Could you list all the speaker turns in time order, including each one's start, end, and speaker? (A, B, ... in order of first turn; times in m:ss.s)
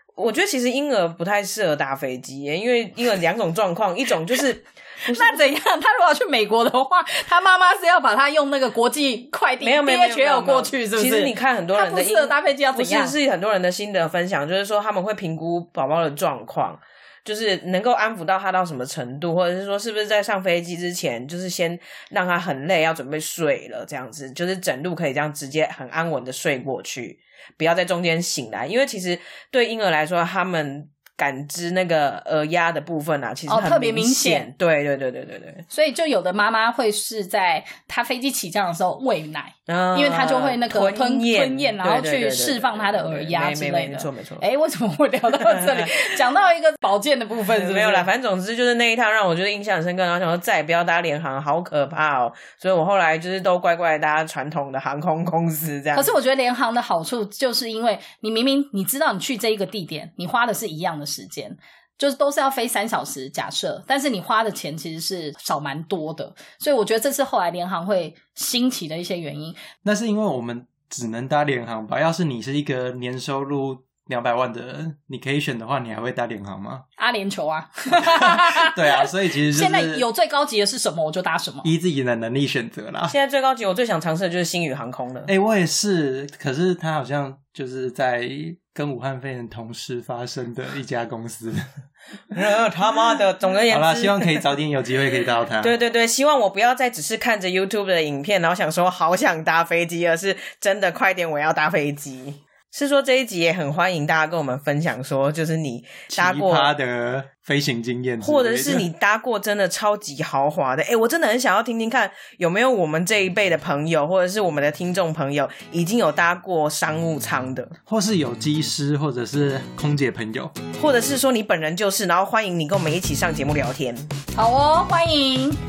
0:00.2-0:05.4 A
0:05.0-0:13.2 B
0:09.6-0:35.6 A
0:33.5-0:34.5 B
0:35.7-0:48.1 B
0:39.7-0:44.4 A
0:45.5-0:46.0 A
0:47.5-0:56.1 A
0:55.9-1:09.6 B
1:09.8-1:16.8 C
1:17.0-1:21.7 B
1:18.0-1:20.0 C
1:21.6-1:23.1 C
1:23.1-1:25.3 A
1:25.3-1:31.6 C
1:32.3-1:34.3 A
1:33.7-1:35.7 C
1:35.6-1:46.7 A
1:46.1-1:48.8 C
1:48.2-1:57.7 A
1:57.9-2:00.5 C
2:00.8-2:04.1 A
2:04.3-2:05.6 B